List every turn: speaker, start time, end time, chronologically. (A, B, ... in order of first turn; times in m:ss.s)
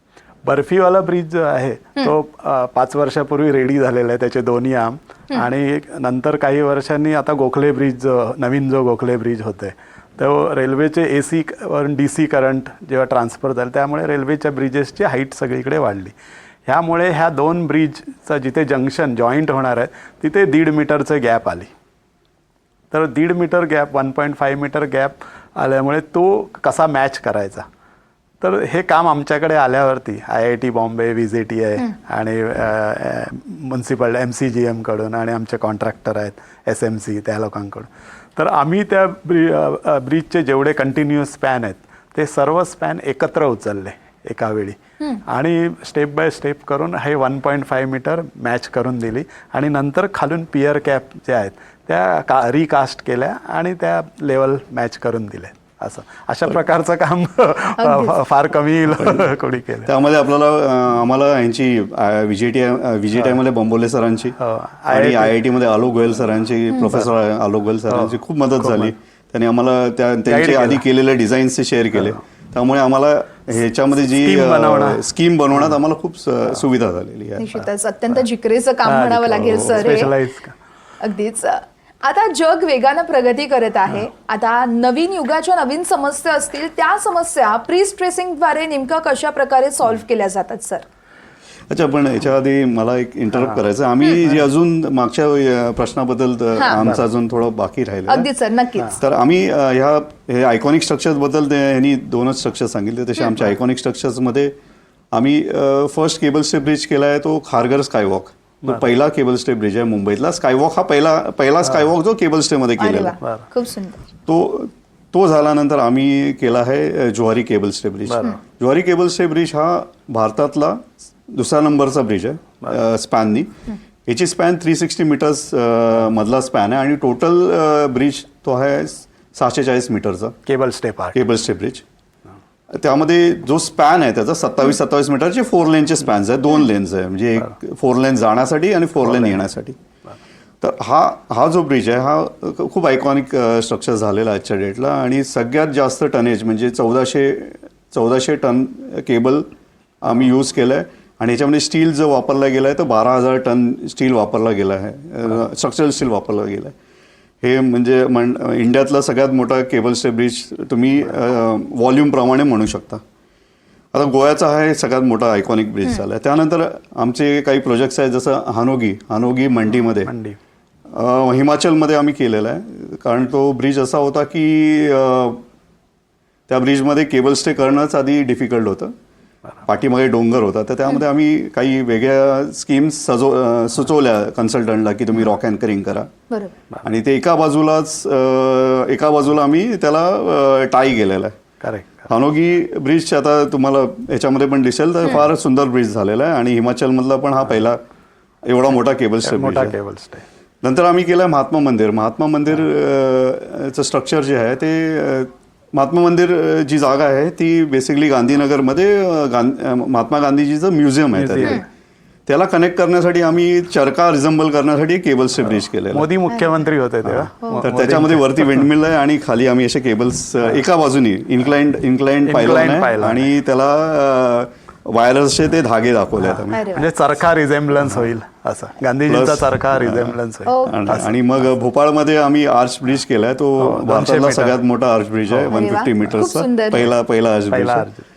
0:00.4-0:16.1 A
0:16.7-0:21.7 A
0:22.9-0:27.6 A
0:28.4-0:59.9 A
0:57.8-0:58.2 B
0:59.8-1:04.4 C
1:03.2-1:03.4 A
1:04.4-1:05.4 A
1:04.9-1:17.5 C
1:06.8-1:07.1 A
1:07.9-1:08.9 A
1:10.3-1:10.8 A
1:14.1-1:15.0 A
1:17.4-1:20.1 B
1:18.8-1:20.5 A
1:21.0-1:30.8 B
1:31.7-1:38.3 C
1:33.3-1:33.6 A
1:36.5-1:36.8 B
1:36.7-1:37.0 A
1:38.1-1:39.0 B
1:39.0-1:44.5 C
1:45.1-1:53.2 C
1:48.6-1:48.9 A
1:52.8-1:54.0 B
1:53.2-1:53.4 A
1:54.3-2:03.5 C
1:58.1-1:58.4 A
2:04.0-2:10.4 C
2:10.4-2:11.2 A
2:11.1-2:11.8 C
2:12.7-2:19.8 C
2:19.0-2:19.4 A
2:20.6-2:29.5 C
2:30.0-2:36.7 C
2:37.4-2:43.0 C
2:43.9-2:50.1 C
2:50.0-2:50.4 A
2:50.9-2:55.4 C
2:56.5-2:58.9 C
2:59.6-3:06.1 C
3:06.3-3:06.5 B
3:06.8-3:11.3 C
3:11.6-3:12.1 A
3:12.1-3:17.8 C
3:18.4-3:19.7 C
3:19.2-3:20.2 A
3:20.6-3:31.6 C
3:31.1-3:31.6 A
3:32.3-3:36.1 C
3:35.9-3:38.7 A
3:36.3-3:36.6 B
3:37.0-3:46.6 C
3:42.2-3:43.3 A
3:46.2-3:51.4 A
3:46.5-3:46.9 B
3:49.1-3:57.9 C
3:50.4-3:50.9 B
3:53.6-3:54.6 A
3:55.5-3:56.9 B
3:57.5-3:58.0 A